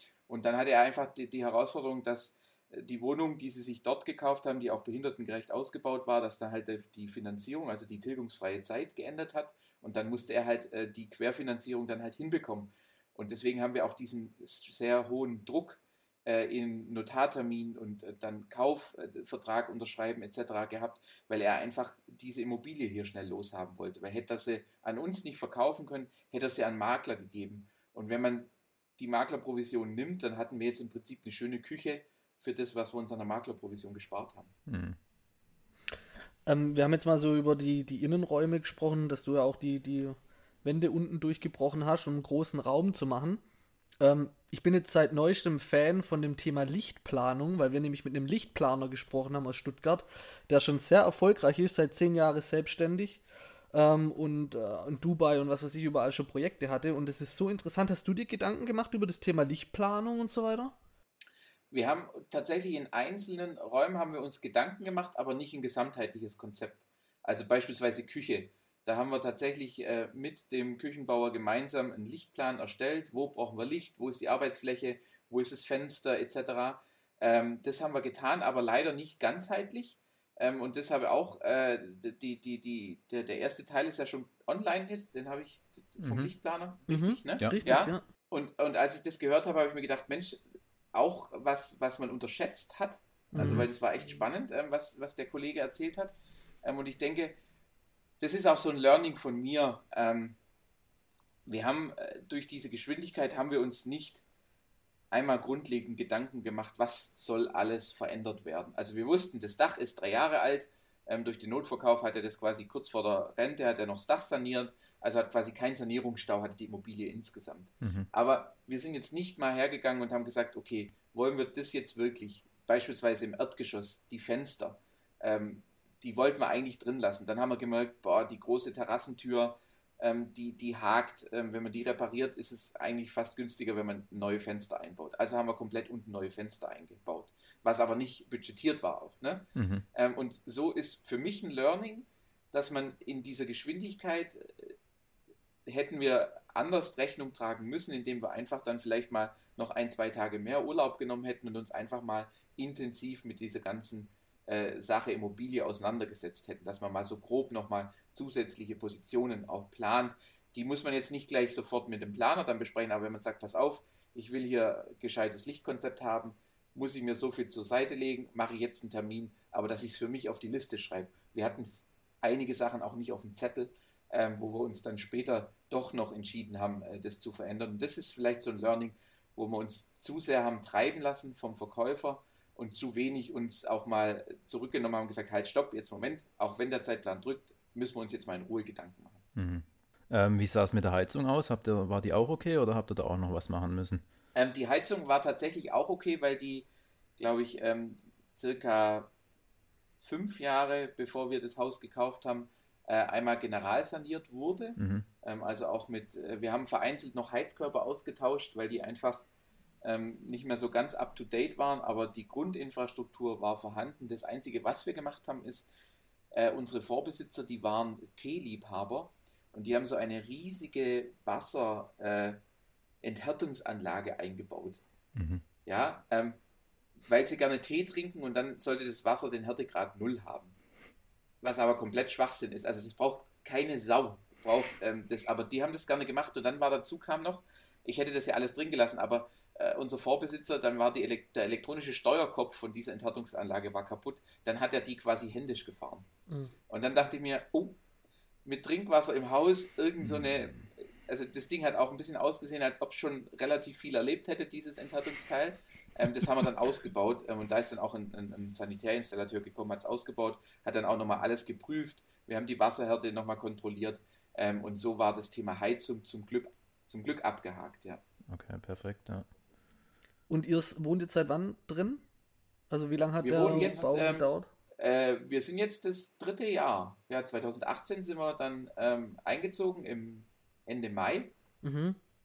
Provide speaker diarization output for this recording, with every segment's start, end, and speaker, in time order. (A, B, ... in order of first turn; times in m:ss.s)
0:00.3-0:34.5 A
0:34.7-0:35.0 B
0:36.5-0:43.4 C
0:44.0-1:00.8 C
1:01.7-1:30.4 A
1:26.0-1:26.3 B
1:26.9-1:28.0 C
1:27.4-1:27.6 B
1:30.9-1:37.4 A
1:33.3-1:33.7 C
1:33.4-1:33.7 B
1:38.2-1:40.4 A
1:41.5-1:44.2 A
1:45.1-2:24.7 A
1:57.8-1:58.1 B
2:19.6-2:19.8 B
2:25.6-3:09.2 A
3:09.4-3:14.0 B
3:14.4-3:16.6 A
3:17.2-3:19.1 A
3:20.0-3:29.3 A
3:24.8-3:25.1 B
3:29.8-3:35.7 A
3:36.3-3:42.4 A
3:43.0-3:44.8 A
3:45.2-3:45.4 B
3:45.6-3:46.4 A
3:47.1-3:50.6 A
3:51.4-4:06.1 A
4:06.7-4:07.8 A
4:08.4-4:28.0 A
4:28.3-4:29.2 B
4:30.3-4:32.0 C
4:32.7-4:34.5 C
4:33.2-4:34.2 A
4:34.8-4:41.3 A
4:41.6-4:42.0 C